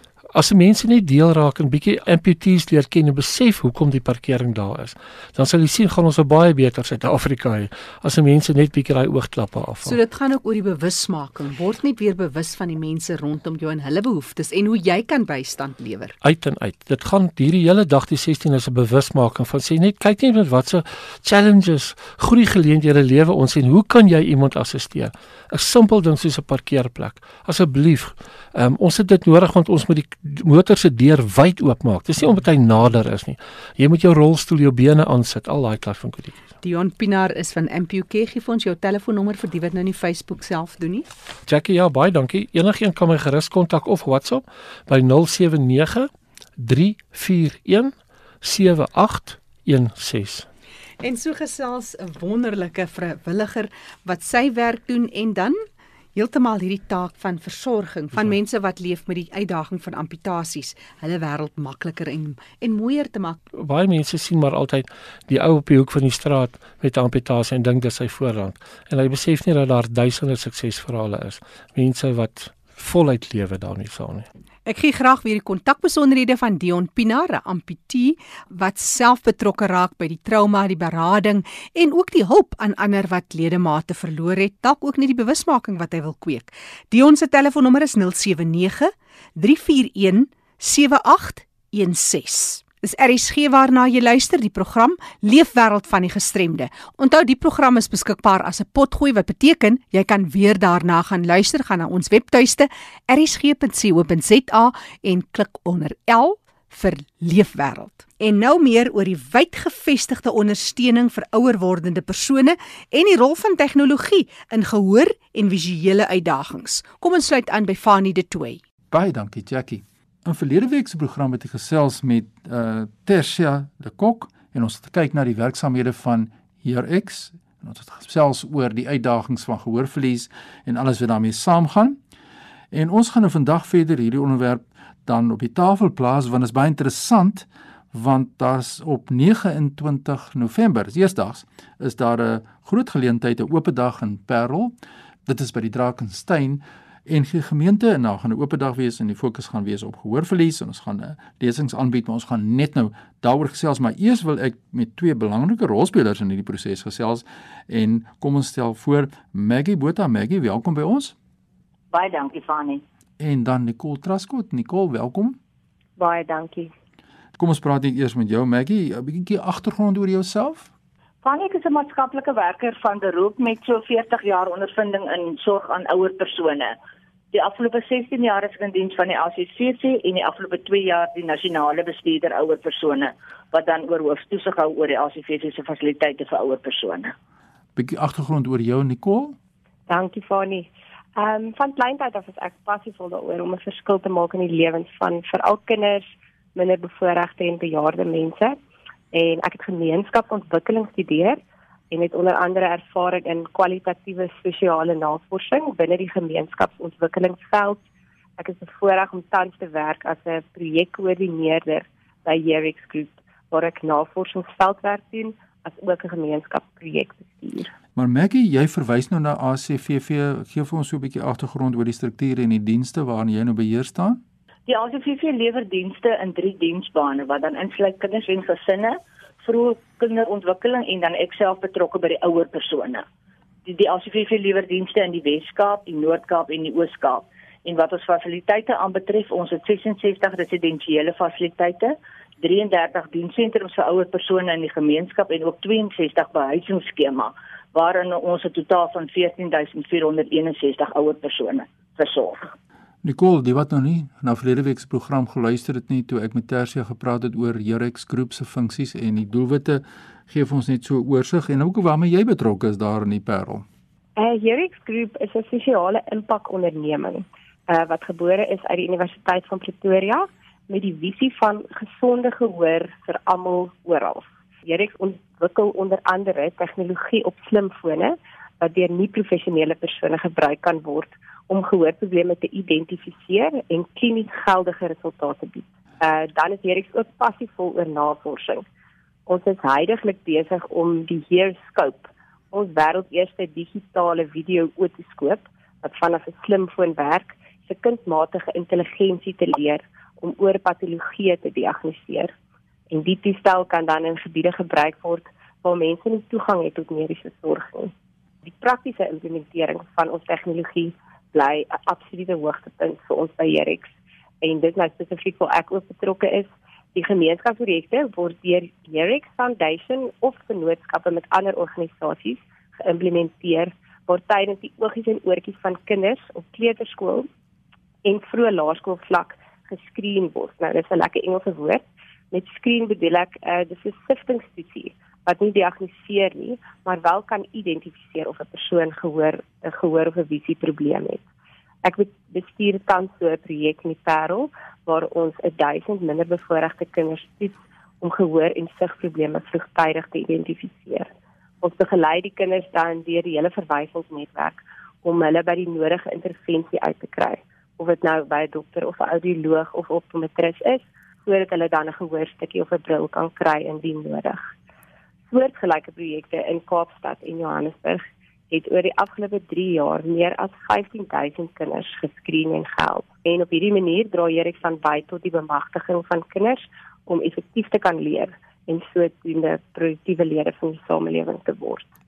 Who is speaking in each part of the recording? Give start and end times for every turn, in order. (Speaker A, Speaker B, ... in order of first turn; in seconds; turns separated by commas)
Speaker A: 0.3-10.0, Speaker B: 9.8-16.1, Speaker A: 16.2-36.4, Speaker B: 36.6-41.1, Speaker A: 41.5-50.5, Speaker B: 51.0-63.4, Speaker A: 63.5-74.3, Speaker B: 74.7-118.6, Speaker C: 118.9-132.0, Speaker C: 132.7-144.7, Speaker C: 145.3-161.2, Speaker D: 161.9-162.8, Speaker C: 163.2-165.4, Speaker E: 166.0-166.7, Speaker C: 167.4-170.7, Speaker D: 171.2-176.8, Speaker D: 177.3-187.1, Speaker C: 187.8-189.4, Speaker E: 189.9-198.6, Speaker E: 199.1-201.4, Speaker E: 201.9-207.8, Speaker E: 208.4-217.7, Speaker C: 218.0-224.2, Speaker D: 224.7-233.1, Speaker D: 233.7-252.5, Speaker C: 253.0-263.6, Speaker E: 264.2-288.6, Speaker E: 289.3-302.3, Speaker E: 302.9-307.9, Speaker E: 308.4-313.9, Speaker E: 314.4-327.3, Speaker E: 328.0-341.2, Speaker E: 341.8-351.1, Speaker E: 351.6-364.4, Speaker E: 365.3-381.9